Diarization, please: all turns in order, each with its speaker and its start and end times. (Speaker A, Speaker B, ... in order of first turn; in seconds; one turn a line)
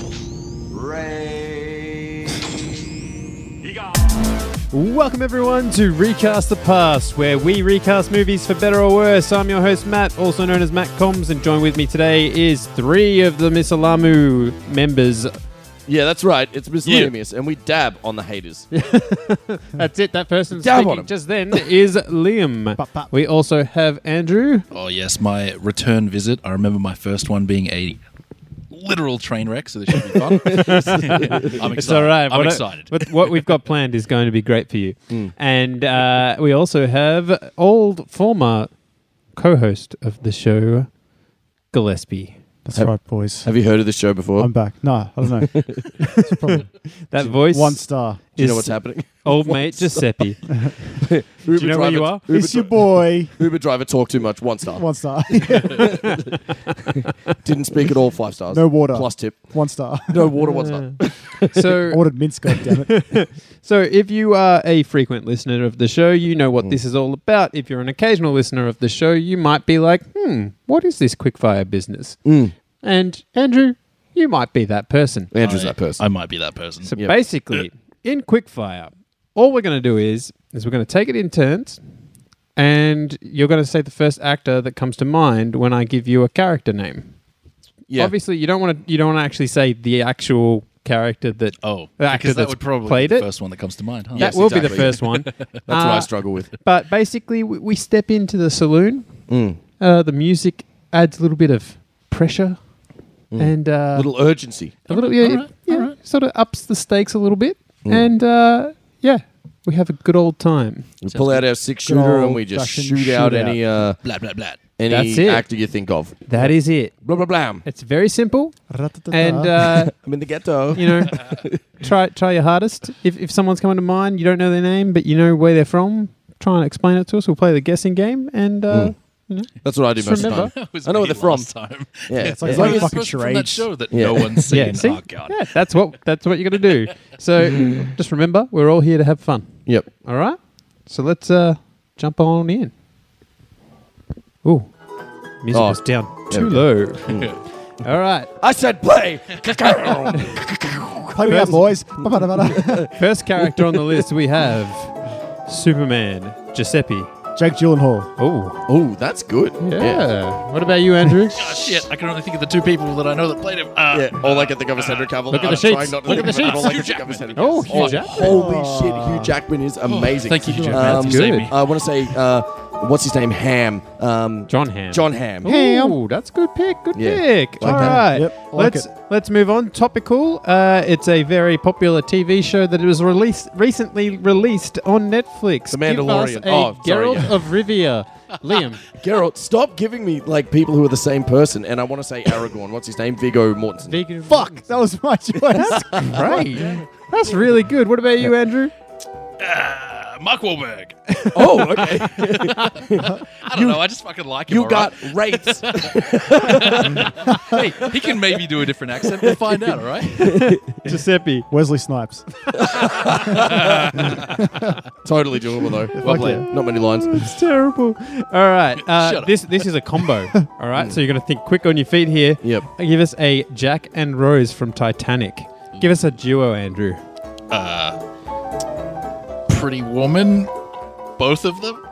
Speaker A: 0.7-1.7
Speaker B: 4.7-15.3
Speaker A: 15.8-18.7
Speaker C: 16.8-17.1
Speaker B: 18.7-24.6
Speaker A: 20.6-21.1
Speaker D: 22.8-23.1
Speaker C: 24.7-28.0
Speaker C: 28.7-33.4
Speaker A: 30.5-31.6
Speaker B: 30.5-38.8
Speaker B: 39.3-40.9
Speaker B: 41.7-42.4
Speaker D: 42.6-43.5
Speaker A: 42.7-44.6
Speaker D: 44.4-45.5
Speaker A: 45.5-45.9
Speaker B: 46.0-46.4
Speaker D: 46.1-46.7
Speaker B: 47.1-50.8
Speaker D: 47.3-48.4
Speaker A: 48.4-50.2
Speaker D: 50.5-50.8
Speaker A: 51.0-54.8
Speaker B: 51.5-52.3
Speaker D: 52.2-53.4
Speaker D: 54.7-56.0
Speaker A: 55.6-56.2
Speaker B: 55.7-56.4
Speaker A: 57.3-61.6
Speaker D: 58.5-60.4
Speaker B: 60.6-60.9
Speaker B: 61.5-72.2
Speaker D: 61.9-63.1
Speaker A: 72.2-72.5
Speaker B: 72.8-75.3
Speaker A: 75.3-76.0
Speaker C: 75.4-76.9
Speaker B: 76.8-81.8
Speaker B: 82.5-87.2
Speaker A: 87.9-88.1
Speaker B: 87.9-99.3
Speaker C: 91.6-95.5
Speaker A: 94.1-95.0
Speaker A: 95.7-96.5
Speaker A: 99.3-99.6
Speaker B: 99.8-102.7
Speaker B: 103.3-110.9
Speaker A: 103.3-104.8
Speaker C: 104.9-105.9
Speaker A: 107.8-108.1
Speaker A: 111.0-117.6
Speaker C: 111.0-111.5
Speaker D: 111.8-113.6
Speaker C: 114.0-114.6
Speaker B: 114.9-130.5
Speaker D: 118.7-119.7
Speaker A: 119.7-121.6
Speaker A: 128.7-129.0
Speaker A: 129.6-133.0
Speaker C: 130.0-135.5
Speaker D: 132.2-133.8
Speaker A: 133.9-134.7
Speaker B: 134.5-142.7
Speaker A: 137.5-137.9
Speaker B: 144.4-144.7
Speaker B: 145.4-148.3
Speaker A: 145.5-151.4
Speaker C: 147.1-147.4
Speaker D: 151.1-153.0
Speaker B: 151.2-151.7
Speaker A: 152.0-154.0
Speaker B: 152.9-157.1
Speaker D: 157.3-158.1
Speaker B: 158.2-158.6
Speaker A: 158.7-160.0
Speaker B: 159.6-161.7
Speaker C: 161.3-168.3
Speaker A: 163.9-176.0
Speaker B: 165.3-166.8
Speaker B: 167.3-168.3
Speaker D: 168.0-169.4
Speaker C: 169.8-172.2
Speaker B: 170.4-171.5
Speaker B: 174.5-188.8
Speaker A: 176.9-178.1
Speaker D: 177.6-178.9
Speaker A: 185.7-187.3
Speaker A: 188.9-194.0
Speaker B: 193.8-194.7
Speaker D: 194.2-196.7
Speaker A: 195.7-196.8
Speaker B: 196.0-198.7
Speaker C: 199.4-201.1
Speaker A: 201.3-203.8
Speaker C: 202.4-210.4
Speaker A: 204.5-208.2
Speaker A: 209.0-210.9
Speaker B: 210.2-211.5
Speaker D: 211.5-213.5
Speaker A: 212.6-213.7
Speaker C: 213.2-214.4
Speaker D: 214.1-214.6
Speaker A: 215.0-217.3
Speaker D: 216.0-216.5
Speaker C: 216.0-216.4
Speaker B: 217.1-227.0
Speaker C: 218.8-219.7
Speaker A: 220.7-221.0
Speaker A: 222.4-222.7
Speaker C: 227.5-228.0
Speaker C: 229.5-230.5
Speaker C: 231.2-231.8